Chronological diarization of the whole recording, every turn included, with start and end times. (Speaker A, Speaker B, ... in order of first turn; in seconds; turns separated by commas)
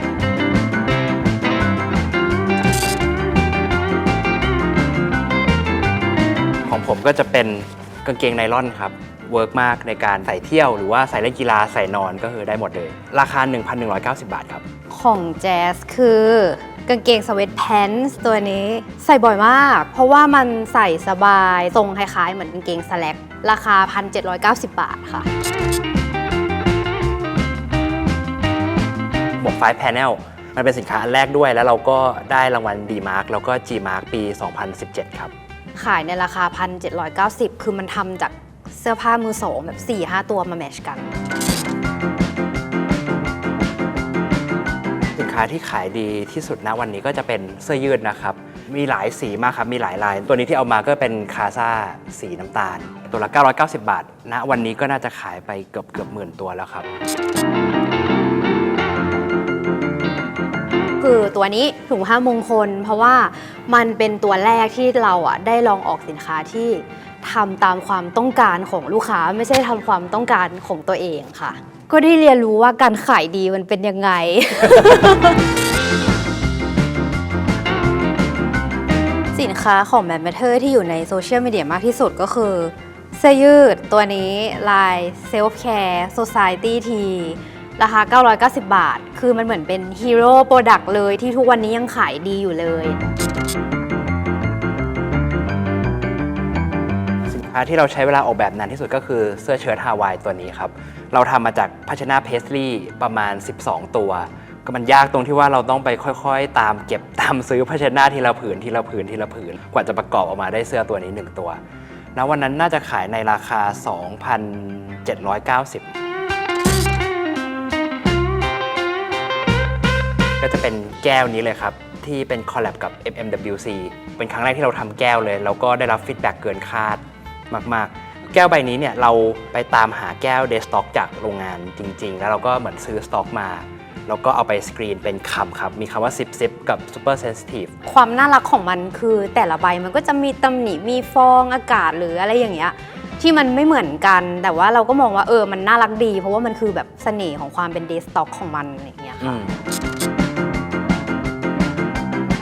Speaker A: 6.7-14.6, Speaker B: 14.9-25.3, Speaker A: 29.4-35.3, Speaker B: 35.8-41.1, Speaker A: 45.1-56.9, Speaker B: 61.0-75.5, Speaker B: 79.3-93.0, Speaker A: 97.3-111.6, Speaker A: 112.2-115.9, Speaker A: 120.4-137.7, Speaker B: 137.8-149.4, Speaker A: 149.2-149.5